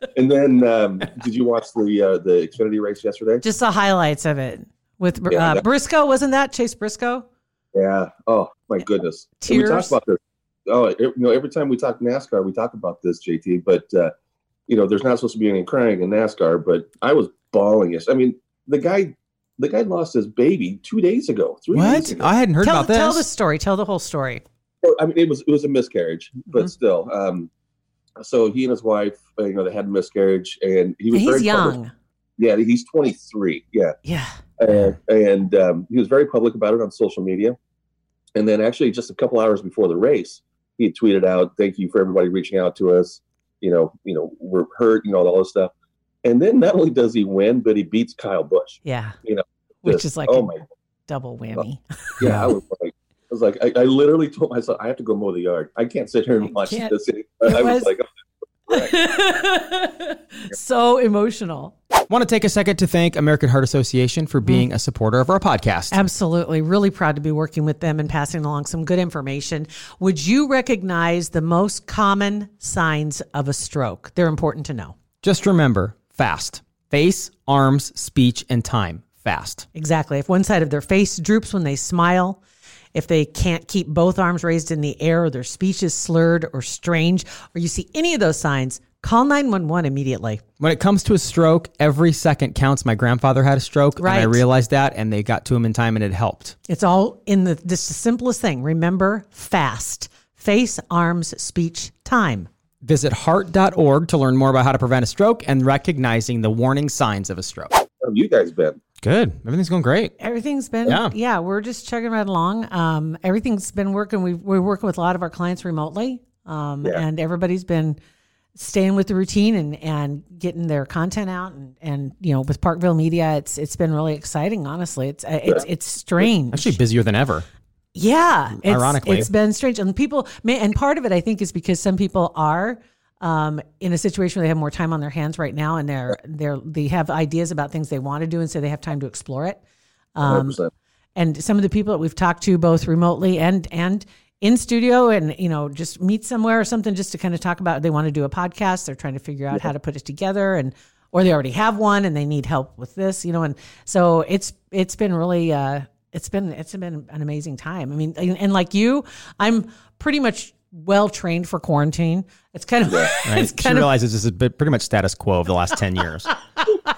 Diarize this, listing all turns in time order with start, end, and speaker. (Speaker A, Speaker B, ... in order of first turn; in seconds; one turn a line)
Speaker A: 0.1-3.4
Speaker B: 3.4-7.3
Speaker A: 5.3-5.6
Speaker A: 7.7-14.1
Speaker B: 9.4-10.0
Speaker A: 14.7-22.3
Speaker C: 21.7-23.2
Speaker B: 22.6-24.4
Speaker A: 24.8-27.5
Speaker A: 28.2-31.8
Speaker B: 31.1-31.9
Speaker A: 32.4-34.0
Speaker B: 34.0-34.3
Speaker A: 34.6-37.5
Speaker A: 38.3-45.7
Speaker A: 46.2-50.6
Speaker B: 48.8-49.1
Speaker B: 49.8-50.5
Speaker B: 51.1-52.1
Speaker A: 52.2-58.1
Speaker C: 52.2-52.5
Speaker B: 56.4-57.9
Speaker A: 58.7-58.9
Speaker B: 58.7-61.7
Speaker C: 62.1-66.0
Speaker B: 65.9-75.0
Speaker C: 75.2-79.6
Speaker B: 79.7-82.4
Speaker B: 82.9-90.4
Speaker C: 90.6-96.5
Speaker B: 94.0-94.4
Speaker B: 96.7-102.5
Speaker C: 102.8-107.8
Speaker A: 108.0-108.8
Speaker C: 109.0-110.1
Speaker B: 110.2-118.0
Speaker C: 110.8-111.1
Speaker B: 118.5-126.8
Speaker C: 126.5-127.5
Speaker B: 127.9-139.6
Speaker C: 128.6-129.3
Speaker B: 140.1-140.6
Speaker A: 140.2-140.7
Speaker B: 141.2-163.9
Speaker C: 163.2-166.3